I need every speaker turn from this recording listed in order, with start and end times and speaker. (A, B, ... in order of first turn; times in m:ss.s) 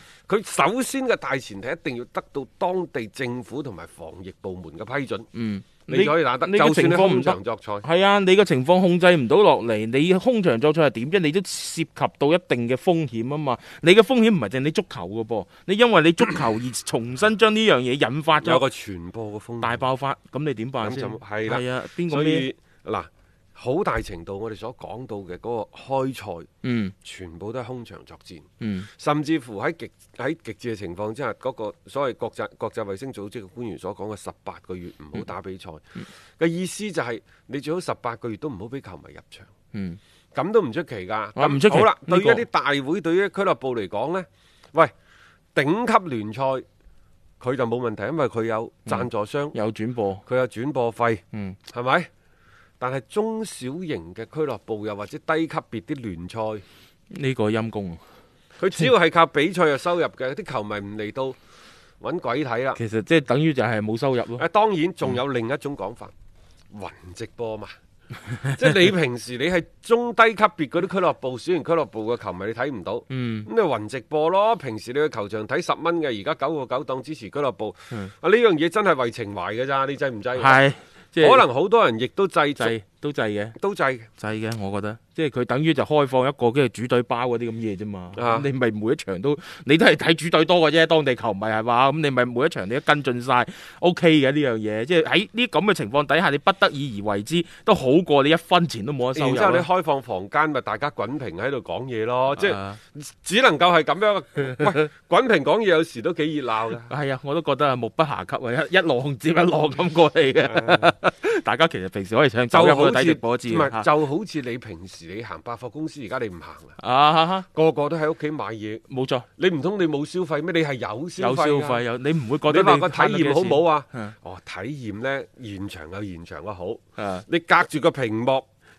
0:00.3-0:05.3 A
0:05.3-0:18.6 B
0:05.9-0:07.9 A
0:18.4-0:19.9 A
0:19.6-0:22.5 B
0:20.8-0:26.5 A
0:26.6-0:27.0 B
0:27.0-0:35.8 A
0:28.6-0:28.9 B
0:36.4-0:39.5 A
0:39.7-0:40.0 B
0:40.4-0:44.9 A
0:41.4-0:42.4 B
0:45.6-0:46.6 A
0:47.4-0:49.6 A
0:48.9-0:50.2 B
0:50.2-0:52.1 A
0:51.3-0:51.6 B
0:52.8-0:56.6 A
0:57.1-0:58.0 B
0:58.6-1:01.4 A
1:02.0-1:02.8 A
1:02.8-1:04.4 B
1:04.4-1:06.1 A
1:06.7-1:07.8 A
1:08.5-1:20.6 A
1:13.1-1:13.5 B
1:20.4-1:21.4 B
1:21.2-1:22.8 A
1:22.6-1:23.6 B
1:23.6-1:24.1 A
1:24.2-1:39.7 B
1:28.1-1:28.5 A
1:39.2-1:46.9 A
1:42.4-1:42.8 B
1:46.9-1:53.9 B
1:50.5-1:50.9 A
1:52.5-1:56.8 A
1:56.8-1:57.5 B
1:57.5-1:58.8 A
1:58.9-1:59.3 B
1:59.4-2:01.8 A
2:01.2-2:04.2 B
2:02.5-2:08.5 A
2:07.0-2:07.2 B